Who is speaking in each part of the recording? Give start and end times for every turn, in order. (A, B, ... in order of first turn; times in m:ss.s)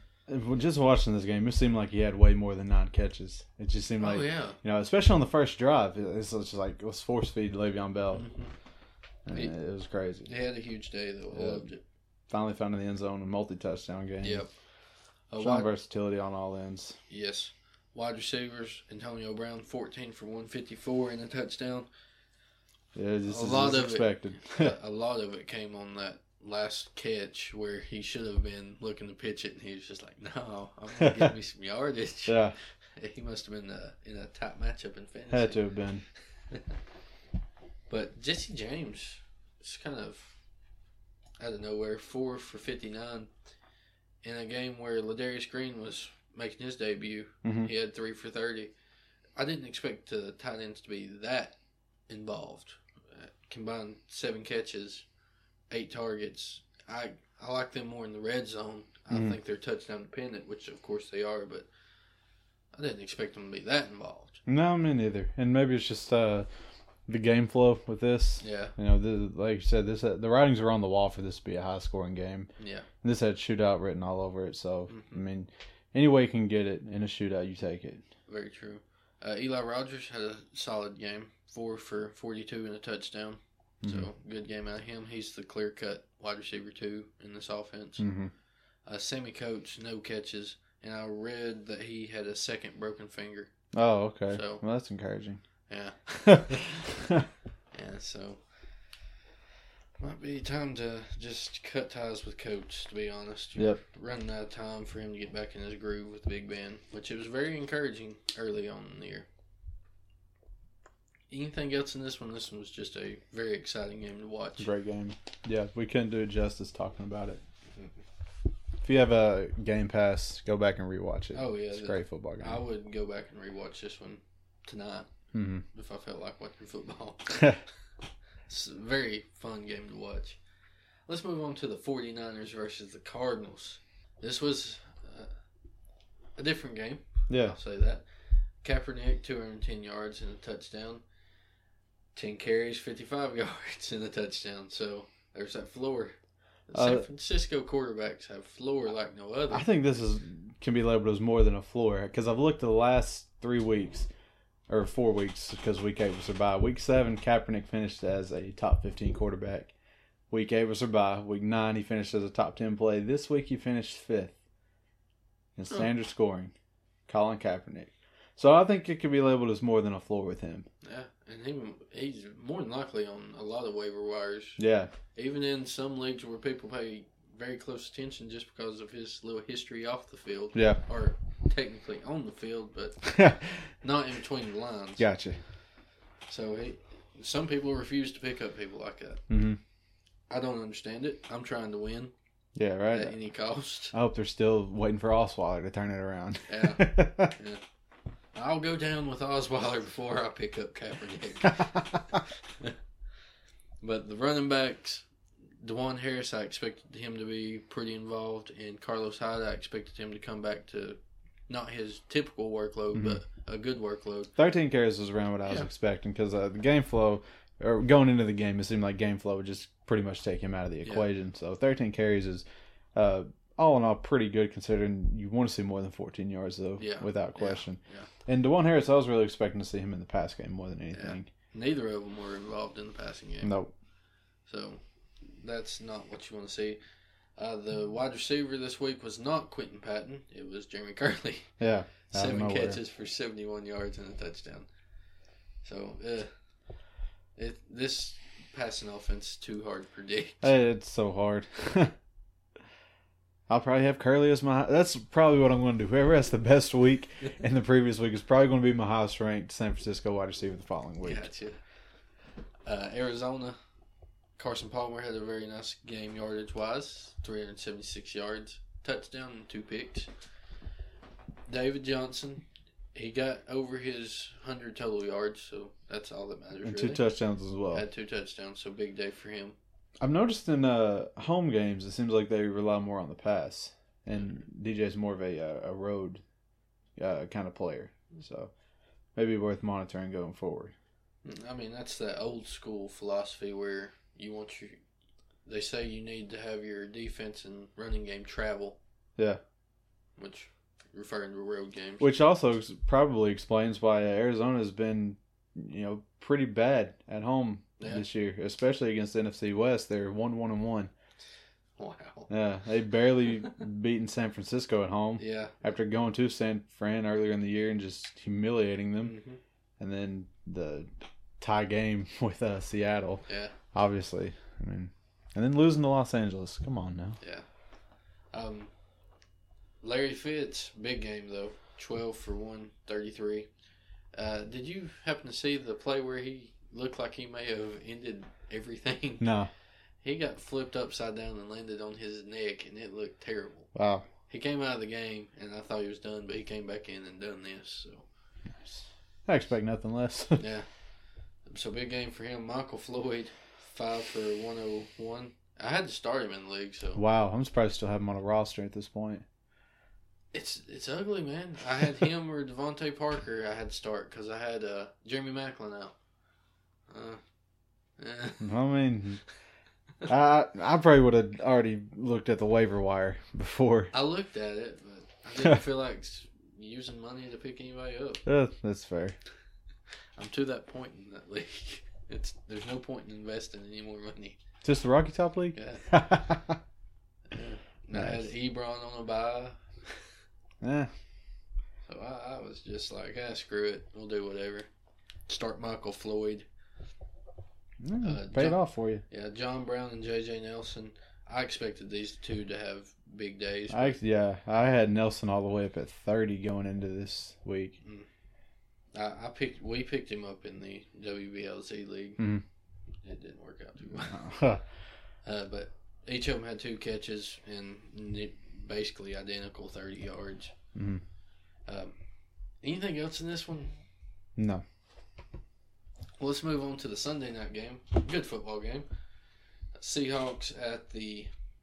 0:00.3-0:08.3 A
0:04.0-0:04.6 B
0:08.1-0:08.5 B
0:09.3-0:10.3 A
0:10.2-0:11.8 B
0:11.3-0:11.7 A
0:12.3-0:14.5 A
0:14.2-0:14.5 B
0:15.3-0:15.7 B
0:15.4-0:17.0 A
0:17.1-0:21.9 B
0:22.9-0:24.7 A
0:23.3-0:32.4 B
0:32.3-0:32.6 A
0:33.0-0:35.6 B
0:35.3-0:36.0 A
0:37.9-0:40.4 B
0:41.4-0:43.3 B
0:44.2-0:48.7 B
0:47.4-0:47.7 A
0:49.4-0:51.6 B
0:52.1-0:55.0 B
0:55.7-1:01.7 B
0:59.1-0:59.4 A
1:02.7-1:04.4 B
1:04.5-1:06.5 A
1:07.1-1:12.5 A
1:08.4-1:08.8 B
1:12.6-1:12.9 B
1:13.0-1:18.0 A
1:14.9-1:15.2 B
1:18.3-1:28.0 B
1:23.8-1:24.1 A
1:28.0-1:28.3 A
1:28.9-1:33.5 B
1:33.7-1:35.4 A
1:34.3-1:34.6 B
1:35.7-1:36.7 B
1:37.7-1:38.5 B
1:40.0-1:49.3 B
1:51.3-1:54.7 B
1:54.6-1:57.4 A
1:58.8-2:02.6 A
2:01.3-2:05.1 B
2:05.3-2:05.6 A
2:05.7-2:07.5 B
2:08.5-2:10.4 B
2:11.1-2:15.4 B
2:16.4-2:18.0 B
2:17.3-2:17.6 A
2:18.6-2:21.0 B
2:22.2-2:26.2 B
2:26.7-2:29.7 B
2:26.7-2:27.1 A
2:29.5-2:34.1 A
2:34.7-2:39.7 A
2:40.3-2:44.4 A
2:45.6-2:46.5 A
2:47.1-2:50.7 A
2:50.8-2:54.6 B
2:54.6-2:54.9 A
2:55.2-3:03.1 B
3:00.5-3:00.8 A
3:03.1-3:03.6 A
3:03.8-3:05.1 B
3:05.0-3:05.4 A
3:06.3-3:09.2 B
3:09.3-3:09.6 A
3:10.3-3:12.1 B
3:12.6-3:13.2 A
3:12.9-3:13.9 B
3:13.9-3:17.3 A
3:16.5-3:17.6 B
3:18.3-3:21.6 B
3:21.5-3:21.8 A
3:23.8-3:25.1 B
3:25.6-3:34.3 B
3:32.9-3:33.2 A
3:34.4-3:51.3 A
3:46.8-3:48.1 B
3:50.9-3:53.5 B
3:53.4-3:53.7 A
3:54.5-3:56.8 B
3:57.4-4:01.5 B
4:01.6-4:02.8 A
4:02.1-4:04.7 B
4:05.6-4:06.3 B
4:07.4-4:10.5 B
4:10.4-4:11.9 A
4:13.5-4:21.3 A
4:21.0-4:21.6 B
4:22.7-4:23.6 B
4:24.4-4:30.1 B
4:31.5-4:37.0 B
4:36.6-4:37.8 A
4:37.7-4:39.6 B
4:40.0-4:46.2 A
4:47.0-4:48.5 A
4:49.2-4:50.7 A
4:51.2-4:54.8 B
4:55.5-4:58.8 B
5:00.2-5:02.1 B
5:02.0-5:10.9 A
5:07.8-5:08.0 B
5:11.8-5:12.3 B
5:12.3-5:19.2 A
5:15.2-5:15.6 B
5:19.0-5:19.4 B
5:19.8-5:27.2 A
5:23.3-5:23.5 B
5:27.2-5:27.5 B
5:28.3-5:28.7 B
5:29.8-5:33.5 B
5:34.2-5:39.3 B
5:39.2-5:39.5 A
5:40.0-5:43.8 B
5:43.7-5:44.1 A
5:44.3-5:48.0 B
5:48.4-5:50.4 A
5:50.4-5:50.7 B
5:51.5-5:57.0 B
5:57.0-5:59.2 A
6:00.3-6:06.0 B
6:06.9-6:07.2 B
6:08.0-6:08.4 B
6:08.4-6:09.2 A
6:10.1-6:13.9 A
6:13.9-6:18.2 B
6:18.2-6:19.2 A
6:20.2-6:24.4 B
6:24.6-6:26.6 A
6:25.6-6:25.8 B
6:27.3-6:30.0 B
6:27.9-6:28.3 A
6:30.6-6:31.0 A
6:31.9-6:34.7 B
6:35.3-6:36.5 B
6:37.8-6:39.0 A
6:38.0-6:44.0 B
6:43.7-6:47.8 A
6:47.8-6:48.1 B
6:48.9-6:52.2 B
6:52.2-6:52.4 A
6:53.0-6:54.2 B
6:54.0-6:54.6 A
6:55.2-7:00.5 B
7:00.8-7:01.0 A
7:01.7-7:02.0 B
7:02.6-7:03.7 B
7:04.4-7:04.6 A
7:06.2-7:08.9 B
7:09.8-7:11.3 B